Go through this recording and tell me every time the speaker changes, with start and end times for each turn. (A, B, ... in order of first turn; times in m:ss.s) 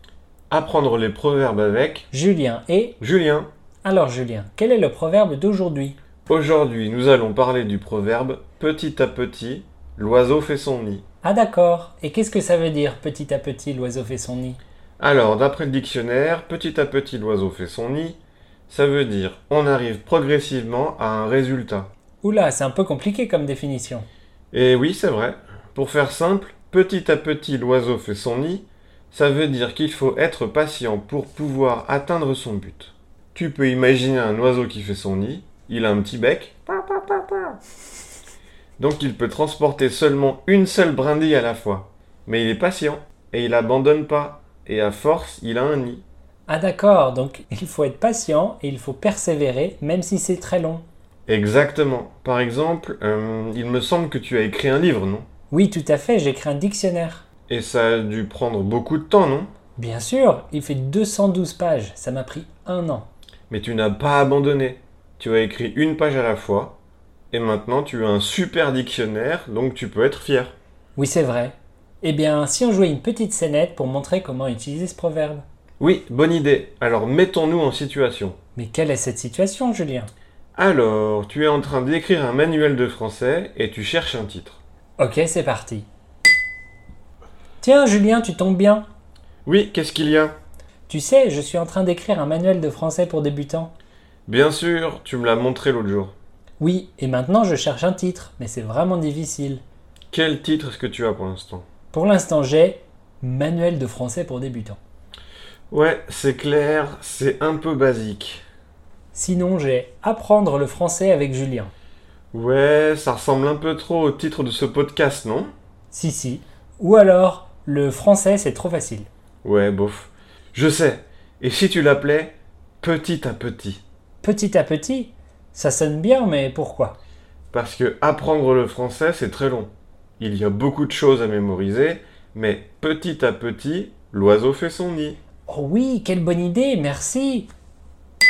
0:00.5-0:02.1 A
0:02.1-0:03.0 B
0:03.0-0:03.5 A
0:03.8-0:06.0 B
0:06.3-0:11.0 A
0:11.2-0:14.6 B
0:15.0-0:18.2 A
0:18.7-0:21.9 A
0:22.2-0:24.1 B
0:24.5-0:37.6 A
0:38.8-0:46.0 A
0:46.5-0:50.8 B
0:51.3-0:55.3 A
0:55.5-0:57.2 B
0:57.5-0:59.5 A
0:59.8-1:03.1 B
1:03.5-1:06.8 A
1:07.3-1:10.5 A
1:11.0-1:15.4 B
1:15.8-1:18.4 A
1:18.6-1:20.1 B
1:20.6-1:24.6 A
1:25.0-1:25.9 B
1:27.6-1:28.8 B
1:29.4-1:30.4 A
1:30.9-1:33.7 B
1:34.3-1:36.1 A
1:36.6-1:39.6 B
1:40.1-1:41.6 A
1:41.9-1:44.8 B
1:45.7-1:48.4 A
1:49.1-1:51.7 B
1:52.3-1:55.5 A
1:55.9-1:59.1 B
1:59.4-2:03.8 A
2:04.2-2:07.0 B
2:07.5-2:15.2 A
2:15.5-2:17.5 B